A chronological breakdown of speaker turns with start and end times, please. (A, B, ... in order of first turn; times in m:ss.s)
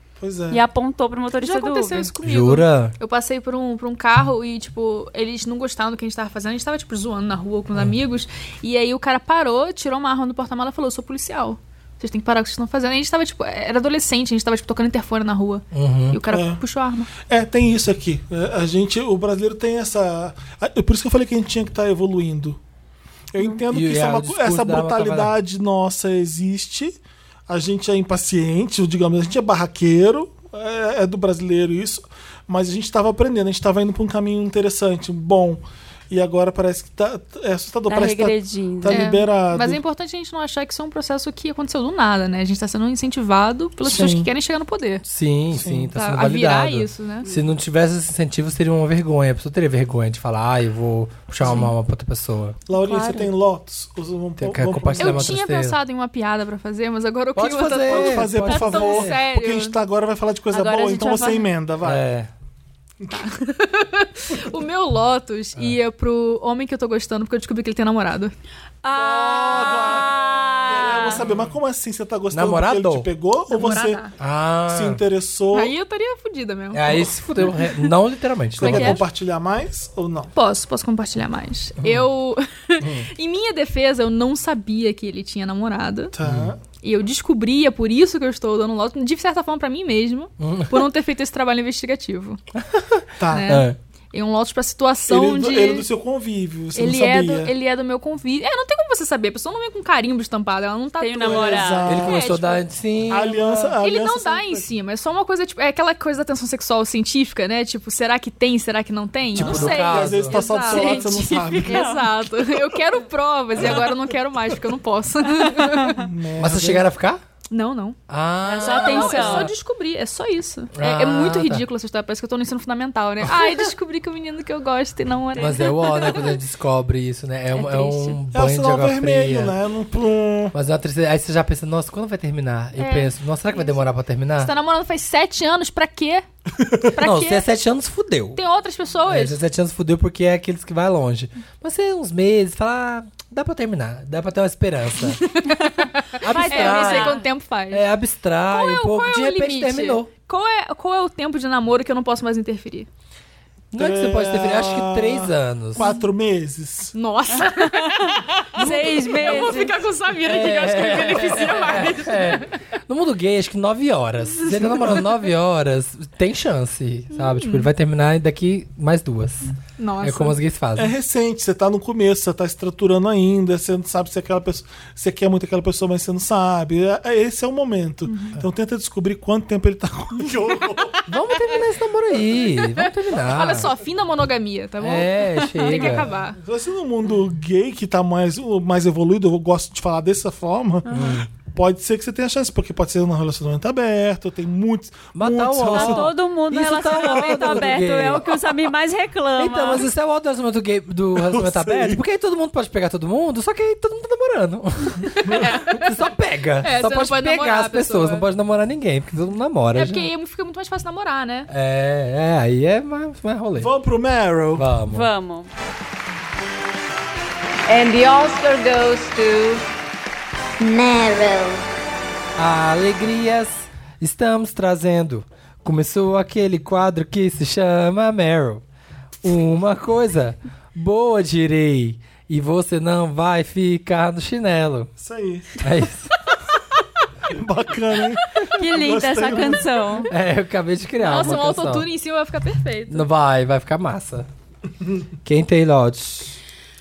0:00.2-0:00.6 A
0:00.5-0:02.1 B
0:01.4-0:17.1 C
0:02.2-0:02.9 D
0:15.7-0:16.2 D
0:16.3-0:16.6 A
0:17.2-0:22.6 A
0:23.3-0:39.8 A
0:23.7-0:25.3 D
0:37.9-0:39.1 B
0:38.9-0:45.0 C
0:43.8-0:44.3 A
0:45.0-0:52.6 D
0:45.5-0:45.9 A
0:45.9-0:47.2 C
0:52.7-0:55.3 A
0:52.7-0:53.3 B
0:54.4-0:55.8 D
0:55.0-0:59.8 C
0:57.4-0:59.2 D
0:57.9-1:02.0 A
1:00.5-1:01.5 B
1:01.8-1:02.3 D
1:03.1-1:08.3 C
1:08.8-1:11.3 B
1:08.9-1:14.1 A
1:12.3-1:13.1 D
1:13.5-1:14.1 C
1:14.2-1:15.0 D
1:14.7-1:15.7 A
1:15.5-1:17.7 C
1:16.7-1:19.0 D
1:18.6-1:20.3 A
1:18.6-1:19.0 C
1:20.3-1:26.1 C
1:22.8-1:23.1 D
1:26.1-1:26.6 A
1:26.2-1:26.5 D
1:26.8-1:32.4 C
1:30.4-1:30.9 D
1:32.5-1:33.8 D
1:33.2-1:33.5 A
1:33.3-1:35.8 C
1:35.1-1:37.5 A
1:36.7-1:42.6 C
1:41.0-1:42.0 B
1:41.2-1:42.2 A
1:41.8-1:43.7 D
1:43.1-1:44.6 A
1:43.8-1:56.0 C
1:49.3-1:50.5 D
1:49.4-1:51.9 A
1:50.7-1:52.0 B
1:55.9-1:56.8 A
1:56.4-1:57.2 D
1:57.5-1:58.0 C
1:58.1-1:59.5 D
1:58.4-1:59.5 B
1:58.6-2:06.2 C
2:00.7-2:01.6 D
2:05.4-2:06.2 B
2:05.4-2:09.5 D
2:07.5-2:08.2 B
2:08.3-2:10.5 A
2:10.5-2:14.5 D
2:12.8-2:13.8 C
2:14.4-2:16.2 C
2:16.9-2:17.4 C
2:17.0-2:18.4 D
2:18.4-2:19.4 C
2:19.1-2:25.2 D
2:25.0-2:27.8 C
2:26.2-2:27.2 B
2:26.2-2:30.1 D
2:28.5-2:32.9 C
2:33.7-2:35.9 D
2:33.7-2:36.9 A
2:35.8-2:36.0 C
2:36.9-2:42.5 C
2:37.3-2:39.8 B
2:40.2-2:50.9 D
2:44.6-2:44.9 C
2:47.2-2:47.7 C
2:49.8-2:50.4 C
2:50.8-3:01.0 A
2:58.0-2:58.4 C
3:01.1-3:03.7 D
3:02.6-3:06.4 C
3:04.8-3:06.1 D
3:05.8-3:16.1 A
3:10.9-3:11.3 D
3:15.1-3:18.5 D
3:15.7-3:19.8 B
3:19.4-3:30.0 D
3:21.2-3:22.0 A
3:25.1-3:25.9 C
3:26.6-3:28.3 C
3:29.7-3:31.5 C
3:31.5-3:33.7 D
3:33.6-3:34.7 A
3:34.5-3:35.1 D
3:34.9-3:35.5 B
3:37.7-3:39.4 E
3:40.6-3:41.6 E
3:42.4-3:48.6 D
3:49.2-3:54.9 D
3:55.0-3:55.6 A
3:55.6-3:56.1 D
3:57.3-4:00.0 A
3:58.5-4:00.1 B
4:00.1-4:01.9 D
4:01.0-4:03.0 C
4:02.9-4:04.3 D
4:05.2-4:06.4 D